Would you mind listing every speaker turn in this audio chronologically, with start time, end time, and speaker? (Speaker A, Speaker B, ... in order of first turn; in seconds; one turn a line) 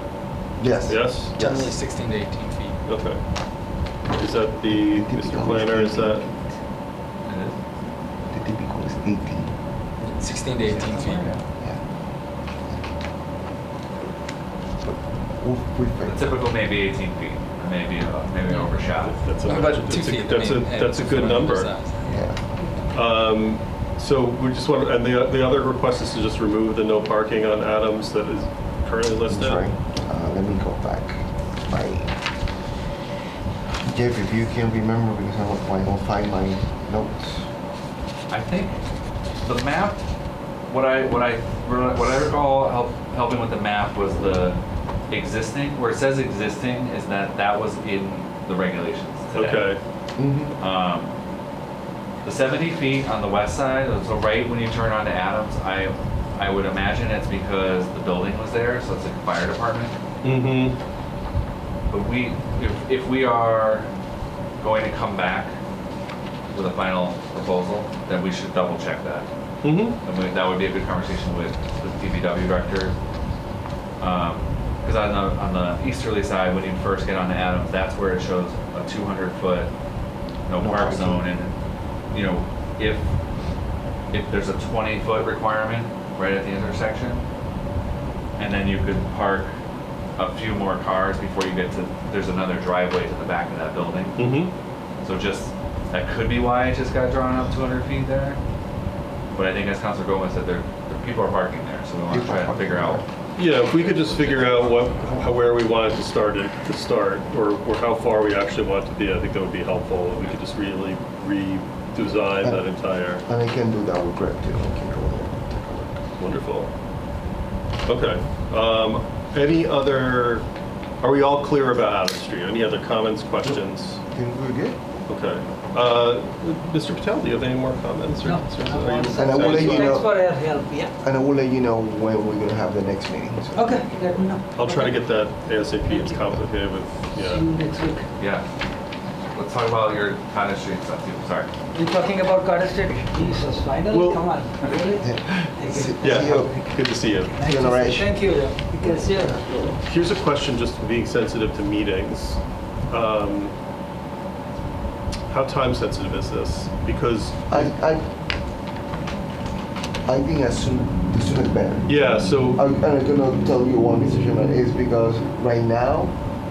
Speaker A: 0.6-1.7
Speaker B: 0.9-1.4
Speaker C: 1.3-2.8
Speaker B: 2.9-3.2
Speaker B: 4.2-6.2
Speaker A: 4.7-6.6
Speaker D: 7.2-7.5
Speaker A: 8.3-9.5
Speaker C: 10.0-11.3
Speaker D: 10.7-11.4
Speaker A: 14.8-16.3
Speaker D: 16.0-19.2
Speaker B: 18.9-21.7
Speaker C: 19.4-22.1
Speaker A: 22.1-22.4
Speaker B: 22.9-29.6
Speaker A: 29.3-32.1
Speaker A: 33.9-37.5
Speaker D: 38.3-38.8
Speaker D: 39.4-40.0
Speaker D: 40.7-49.7
Speaker B: 49.3-49.8
Speaker A: 50.2-50.5
Speaker D: 50.6-51.1
Speaker D: 52.2-59.9
Speaker B: 60.2-60.8
Speaker D: 61.9-63.9
Speaker D: 64.6-65.5
Speaker D: 66.5-69.3
Speaker B: 69.6-70.0
Speaker D: 70.0-72.9
Speaker D: 74.0-79.7
Speaker D: 80.5-81.5
Speaker A: 80.6-81.3
Speaker D: 82.1-83.1
Speaker D: 84.1-87.2
Speaker D: 88.4-89.5
Speaker D: 90.2-94.3
Speaker B: 94.2-94.5
Speaker D: 95.0-98.4
Speaker D: 99.3-103.1
Speaker A: 102.1-103.0
Speaker B: 103.3-113.2
Speaker D: 103.6-104.8
Speaker A: 113.2-116.0
Speaker B: 116.2-116.7
Speaker B: 117.8-120.5
Speaker B: 121.0-124.0
Speaker A: 124.1-124.8
Speaker B: 125.1-130.0
Speaker E: 128.2-130.9
Speaker A: 129.1-130.2
Speaker A: 131.0-134.0
Speaker E: 133.5-135.2
Speaker B: 134.5-137.4
Speaker E: 135.8-136.3
Speaker E: 137.1-138.1
Speaker D: 138.2-138.4
Speaker D: 139.3-141.5
Speaker E: 141.7-149.4
Speaker B: 143.9-144.2
Speaker A: 144.8-146.6
Speaker B: 146.0-147.4
Speaker A: 147.3-149.8
Speaker B: 149.8-153.5
Speaker B: 155.3-157.7
Speaker A: 157.5-158.1
Speaker A: 160.1-161.9
Speaker B: 161.9-162.6
Speaker A: 162.5-166.1